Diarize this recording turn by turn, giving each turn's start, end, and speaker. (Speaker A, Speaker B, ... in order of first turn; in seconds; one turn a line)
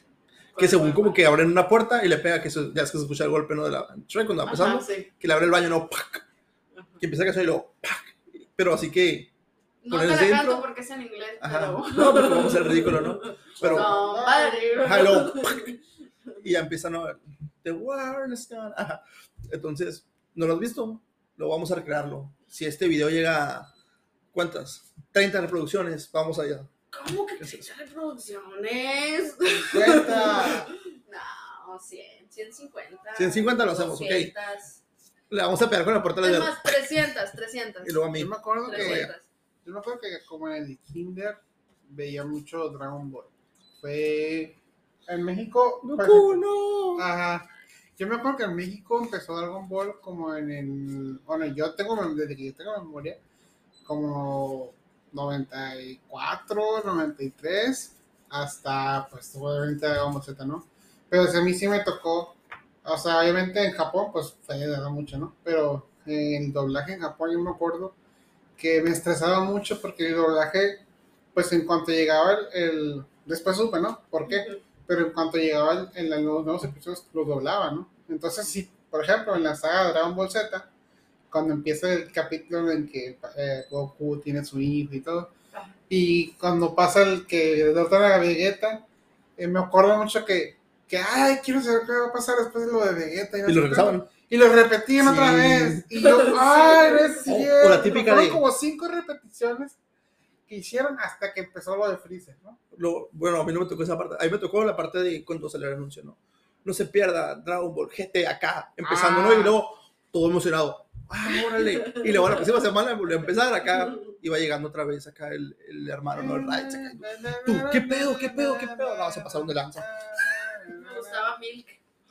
Speaker A: 0.5-1.2
Speaker B: 0.6-6.2
Speaker A: 4.5-5.1
Speaker A: 6.7-7.0
Speaker B: 7.0-9.3
Speaker A: 9.8-15.8
Speaker B: 9.9-10.7
Speaker B: 11.4-14.0
Speaker C: 13.6-14.9
Speaker B: 14.8-15.8
Speaker B: 16.4-23.7
Speaker B: 24.3-26.7
Speaker A: 26.9-34.8
Speaker B: 27.4-27.7
Speaker C: 29.4-30.7
Speaker B: 33.2-34.3
Speaker B: 35.3-36.6
Speaker A: 36.2-38.0
Speaker B: 37.8-39.1
Speaker C: 38.2-39.1
Speaker A: 38.6-39.3
Speaker C: 39.6-53.2
Speaker B: 45.8-47.1
Speaker C: 53.9-68.0
Speaker C: 68.6-70.8
Speaker C: 71.3-80.7
Speaker A: 74.3-74.6
Speaker C: 81.3-85.3
Speaker C: 85.9-88.8
Speaker C: 89.4-99.8
Speaker B: 93.5-94.1
Speaker B: 95.0-95.9
Speaker A: 96.0-97.2
Speaker B: 97.3-98.5
Speaker C: 100.5-102.6
Speaker B: 102.7-120.5
Speaker C: 108.8-109.6
Speaker A: 111.4-112.5
Speaker C: 116.1-121.3
Speaker A: 120.7-121.8